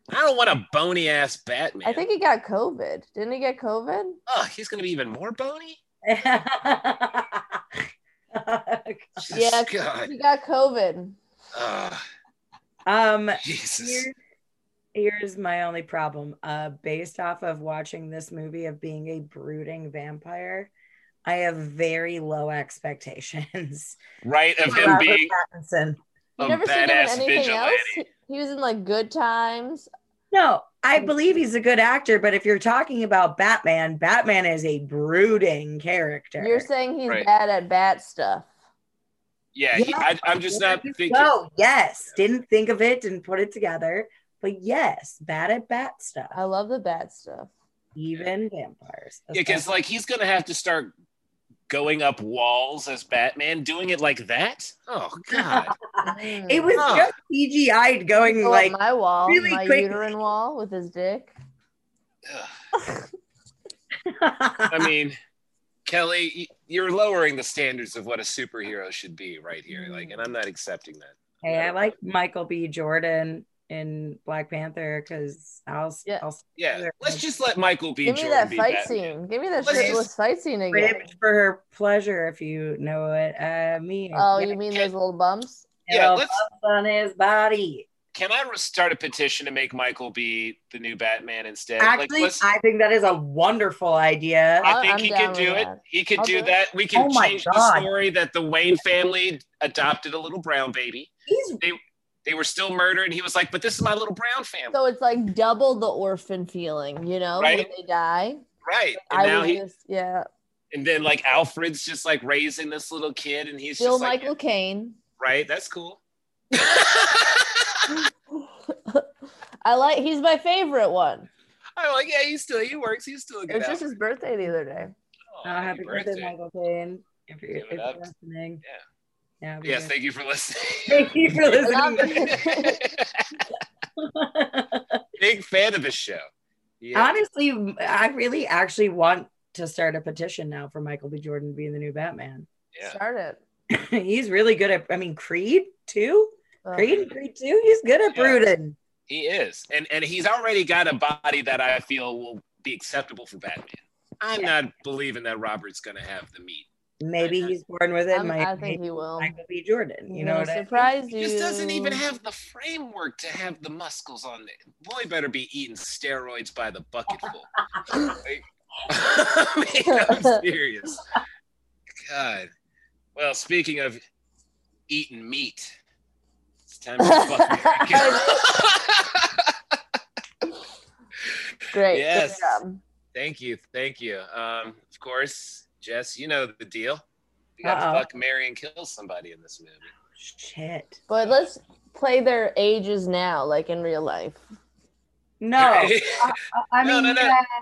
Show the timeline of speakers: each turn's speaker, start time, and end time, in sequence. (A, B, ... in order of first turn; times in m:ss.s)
0:00.1-0:02.0 A
0:01.8-0:04.2 B
0:04.3-0:05.8 A
0:06.0-0:07.8 C
0:08.3-0:09.3 C
0:09.2-0:10.1 A
0:09.3-0:11.2 B
0:11.5-0:12.0 A
0:12.9-0:14.2 C
0:13.4-0:14.1 A
0:15.0-0:20.7 C
0:21.3-0:24.0 C
0:24.2-0:25.3 A
0:24.6-0:26.0 C
0:26.4-0:28.1 A
0:26.4-0:29.9 B
0:30.3-0:36.7 C
0:36.4-0:38.5 B
0:39.5-0:41.3 A
0:39.7-0:46.4 C
0:46.3-0:47.5 B
0:48.0-0:49.7 C
0:49.3-0:50.9 A
0:51.7-0:55.8 A
0:55.3-1:00.1 C
0:56.0-0:56.8 B
0:56.8-0:57.1 A
0:58.2-1:01.3 B
1:02.2-1:02.5 A
1:04.1-1:04.9 C
1:04.7-1:05.2 A
1:05.8-1:12.0 A
1:09.7-1:10.2 B
1:11.4-1:17.2 C
1:16.6-1:19.1 A
1:18.0-1:21.1 B
1:19.6-1:20.0 C
1:19.6-1:20.1 A
1:20.7-1:24.6 C
1:24.1-1:25.7 B
1:25.9-1:27.9 C
1:25.9-1:26.4 A
1:28.1-1:32.4 A
1:31.8-1:34.7 C
1:34.6-1:41.1 A
1:34.6-1:36.5 B
1:36.9-1:37.9 C
1:41.3-1:41.6 C
1:41.6-1:44.8 A
1:44.7-1:48.4 B
1:47.4-1:47.7 A
1:48.6-1:49.6 A
1:49.1-1:50.3 B
1:50.7-1:54.3 A
1:53.8-1:55.0 B
1:55.2-1:56.0 A
1:56.5-1:58.0 A
1:58.7-1:59.1 B
1:59.6-2:01.3 B
2:01.8-2:03.9 A
2:03.5-2:04.9 B
2:05.3-2:06.3 A
2:05.4-2:08.6 C
2:07.5-2:08.0 A
2:09.4-2:09.9 C
2:09.6-2:13.4 A
2:10.9-2:12.4 C
2:11.6-2:12.8 B
2:14.0-2:15.0 C
2:15.2-2:16.3 A
2:16.8-2:17.2 A
2:16.9-2:22.5 C
2:22.8-2:23.4 B
2:23.7-2:28.8 C
2:26.6-2:27.0 B
2:28.1-2:28.5 A
2:29.1-2:36.7 A
2:37.0-2:40.9 C
2:37.2-2:37.6 A
2:38.1-2:39.3 B
2:40.1-2:42.0 B
2:41.1-2:47.5 A
2:48.1-2:51.0 A
2:49.9-2:50.4 B
2:52.0-2:52.5 A
2:53.2-2:54.0 A
2:54.9-2:55.8 A
2:56.7-2:59.8 A
2:57.0-2:58.4 B
3:01.2-3:02.6 A
3:01.7-3:02.8 B
3:03.1-3:07.0 A
3:07.6-3:09.9 A
3:07.6-3:08.1 C
3:10.2-3:11.0 C
3:11.1-3:14.4 B
3:11.2-3:11.5 A
3:15.4-3:17.5 C
3:15.6-3:17.4 A